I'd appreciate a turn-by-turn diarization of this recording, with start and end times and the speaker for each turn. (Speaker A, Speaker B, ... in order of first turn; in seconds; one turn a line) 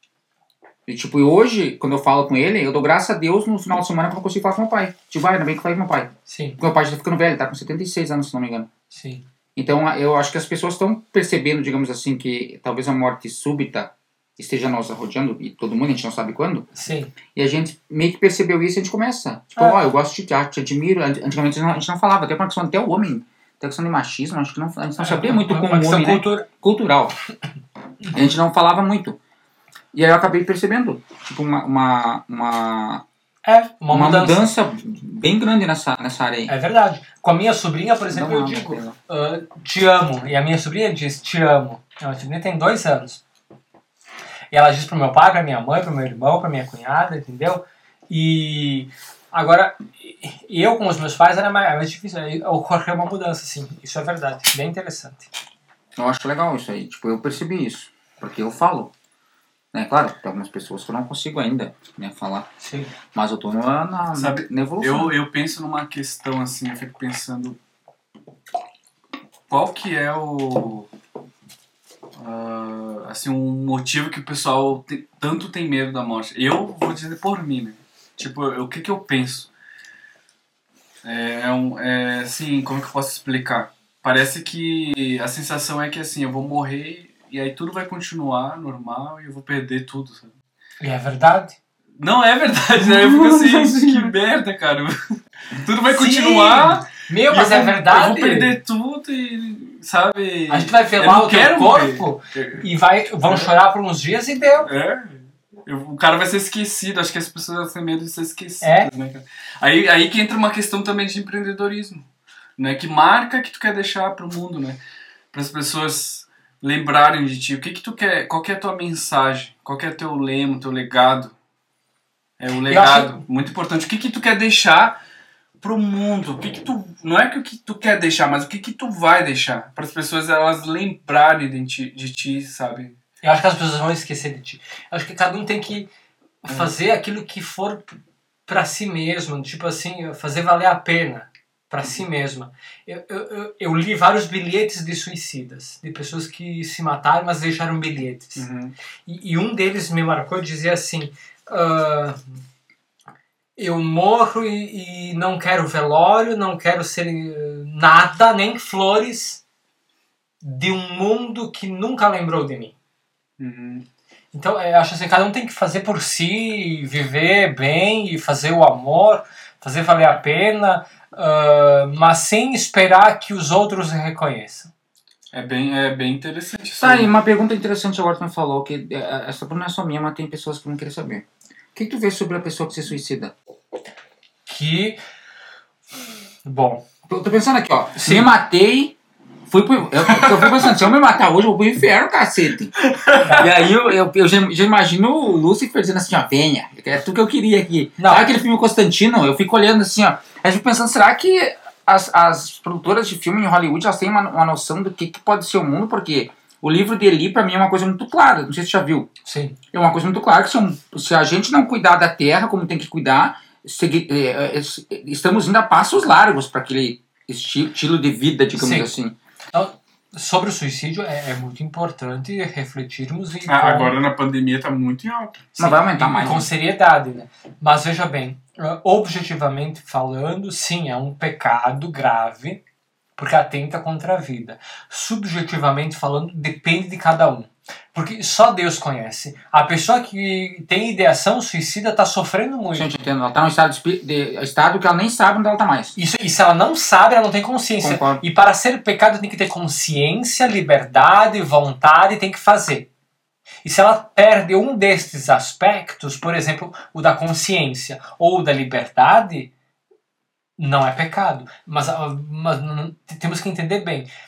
Speaker A: 0.9-8.7
Speaker B: 6.3-6.6
Speaker B: 8.9-9.2
Speaker A: 9.6-16.7
Speaker B: 16.8-17.1
Speaker A: 17.3-27.2
Speaker B: 25.0-26.4
Speaker A: 28.1-29.2
Speaker A: 29.9-33.0
Speaker B: 33.5-34.5
Speaker A: 33.9-36.5
Speaker B: 36.5-43.2
Speaker A: 38.1-39.0
Speaker B: 44.5-55.3
Speaker A: 56.0-58.9
Speaker A: 59.7-62.5
Speaker B: 62.6-62.9
Speaker A: 63.1-65.2
Speaker C: 64.1-67.6
Speaker C: 69.5-70.9
Speaker C: 72.2-79.5
Speaker C: 81.0-90.3
Speaker B: 90.8-91.6
Speaker C: 92.0-95.0
Speaker A: 93.4-93.9
Speaker C: 95.5-102.7
Speaker B: 95.9-98.5
Speaker B: 100.5-104.7
Speaker C: 103.2-103.5
Speaker C: 104.7-112.1
Speaker B: 108.6-108.9
Speaker C: 112.6-114.8
Speaker C: 115.3-121.3
Speaker C: 122.4-125.0
Speaker B: 122.7-123.2
Speaker C: 125.6-132.9
Speaker B: 133.2-135.9
Speaker B: 136.4-137.9
Speaker C: 136.5-136.7
Speaker B: 138.5-148.5
Speaker C: 148.4-148.8
Speaker B: 149.1-152.3
Speaker B: 153.6-159.4
Speaker B: 160.4-162.8
Speaker C: 163.4-163.8
Speaker B: 164.3-174.7
Speaker C: 175.3-177.2
Speaker A: 176.8-183.3
Speaker B: 184.5-185.0
Speaker B: 186.4-186.8
Speaker A: 187.1-192.8
Speaker B: 188.0-188.3
Speaker C: 190.2-190.7
Speaker C: 192.8-193.7
Speaker A: 193.3-209.1
Speaker B: 198.0-198.3
Speaker B: 209.3-209.6
Speaker A: 209.7-219.2
Speaker B: 218.6-218.9
Speaker B: 219.5-223.9
Speaker C: 223.5-225.5
Speaker B: 225.6-232.6
Speaker A: 225.6-226.5
Speaker B: 233.2-242.9
Speaker A: 242.7-246.0
Speaker B: 246.0-252.9
Speaker A: 247.8-248.2
Speaker B: 253.6-259.5
Speaker B: 260.6-264.1